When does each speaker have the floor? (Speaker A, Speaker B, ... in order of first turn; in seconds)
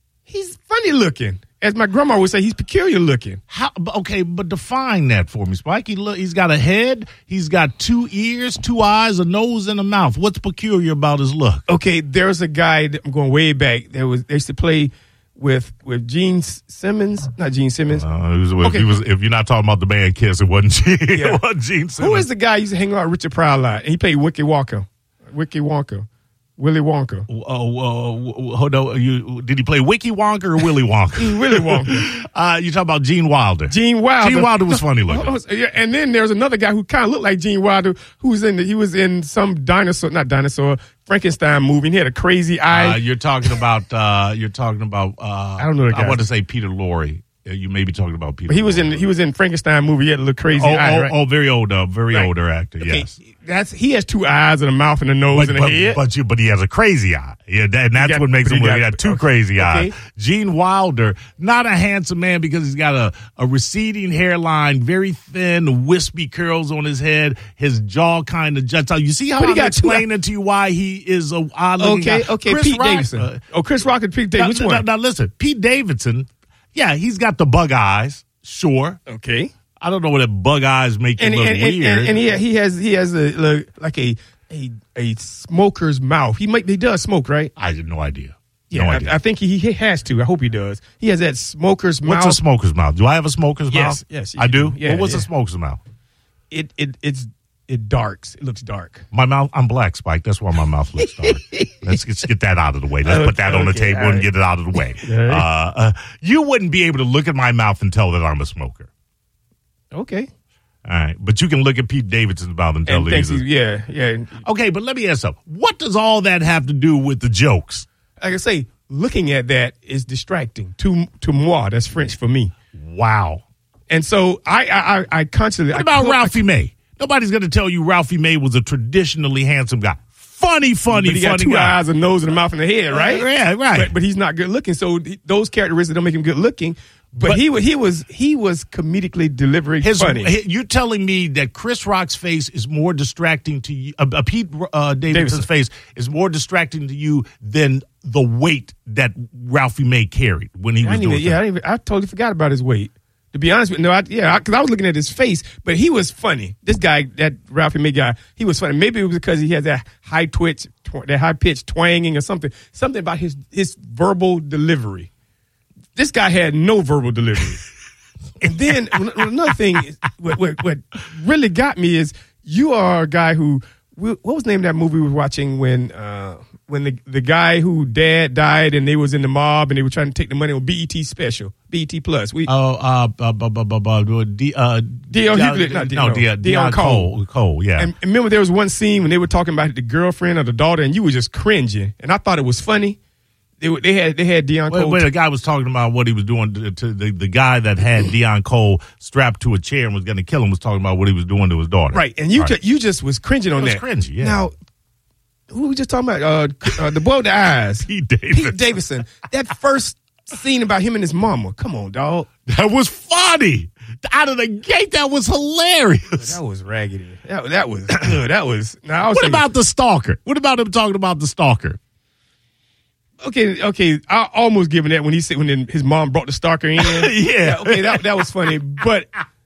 Speaker A: 0.3-3.4, 11.7-18.1, 18.6-18.9, 21.1-21.4, 22.0-27.3, 31.1-32.1, 33.7-43.0, 45.6-46.2, 48.5-51.1, 52.1-56.0, 58.0-59.9, 69.4-70.1, 71.8-74.8, 79.1-79.5, 81.2-87.5, 88.7-92.4, 93.7-95.3, 96.5-99.0, 101.0-101.8, 103.0-104.3, 104.9-105.5, 109.9-110.3, 112.8-114.4, 118.2-122.5, 123.9-126.4, 130.9-140.3, 145.1-145.5, 150.8-165.1, 165.9-167.6, 168.4-182.5, 185.1-187.1, 187.8-193.0, 193.6-195.1, 201.9-204.5, 205.5-212.3, 216.1-219.4, 223.2-229.1
Speaker B: 3.5-11.6, 17.9-22.2, 27.3-35.3, 42.7-49.0, 50.5-53.1, 55.3-73.4, 74.4-79.0, 79.8-82.3, 87.5-89.2, 92.0-95.8, 99.1-108.9, 110.8-113.4, 114.4-117.8, 122.7-123.4, 125.7-131.8, 132.9-133.9, 137.1-137.4, 139.8-151.4, 182.5-187.9, 194.7-202.5, 203.6-204.4, 207.8-208.6, 212.5-216.4, 219.1-221.8, 226.8-228.0